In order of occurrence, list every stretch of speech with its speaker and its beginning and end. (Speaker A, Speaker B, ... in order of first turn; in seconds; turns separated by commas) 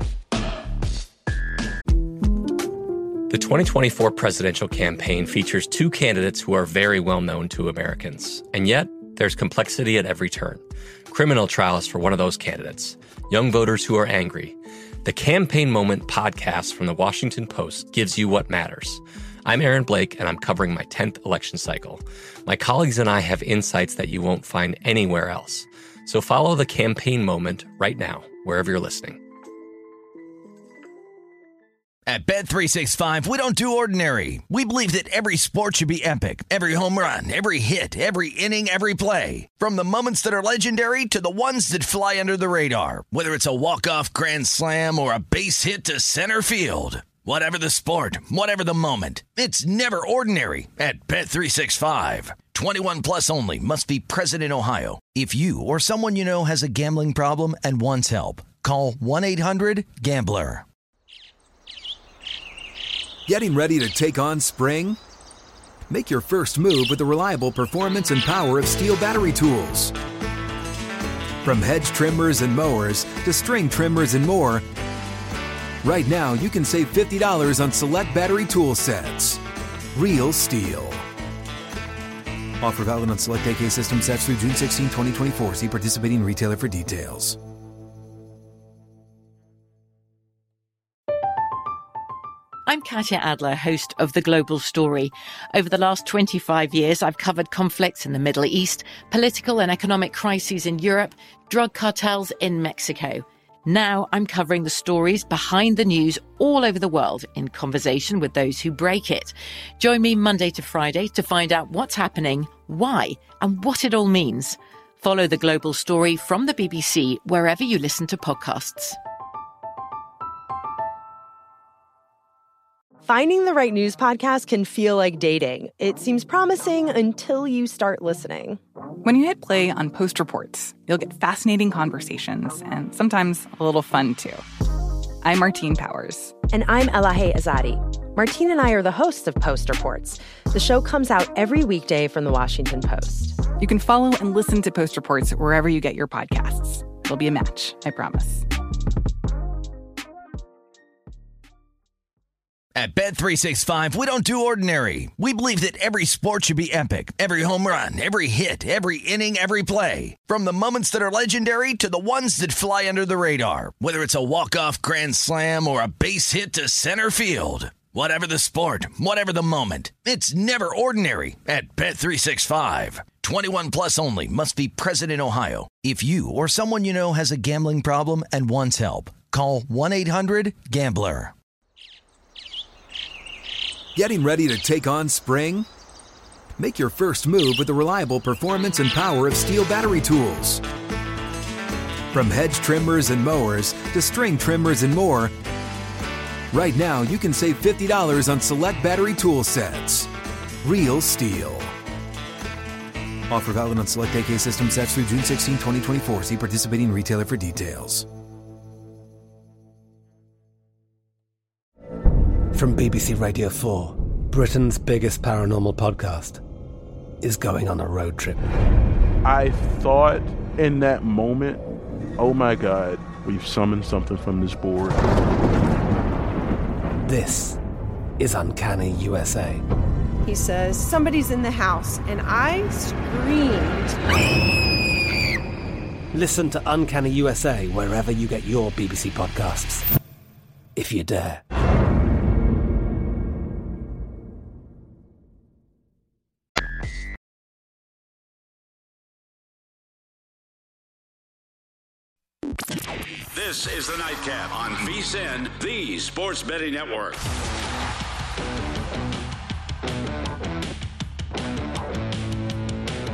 Speaker A: 3.3-29.2, Speaker B: 32.1-60.6, Speaker C: 63.3-65.0, Speaker C: 65.9-69.9, Speaker C: 71.4-74.7, Speaker C: 75.8-79.4, Speaker C: 79.9-81.1, Speaker C: 82.6-87.4, Speaker D: 92.7-119.0, Speaker E: 123.0-128.6, Speaker F: 129.0-134.4, Speaker F: 135.2-136.3, Speaker E: 136.5-143.4, Speaker F: 143.5-148.4, Speaker B: 152.8-181.3, Speaker C: 184.0-185.7, Speaker C: 186.6-190.6, Speaker C: 192.1-195.3, Speaker C: 196.5-200.1, Speaker C: 200.6-201.7, Speaker C: 203.3-208.1, Speaker G: 212.5-216.4, Speaker G: 217.2-218.4, Speaker H: 219.2-221.6, Speaker H: 222.2-225.0, Speaker G: 227.0-227.6, Speaker G: 228.2-229.6, Speaker I: 230.2-234.0, Speaker G: 236.1-239.9, Speaker G: 240.8-241.4, Speaker J: 253.3-257.3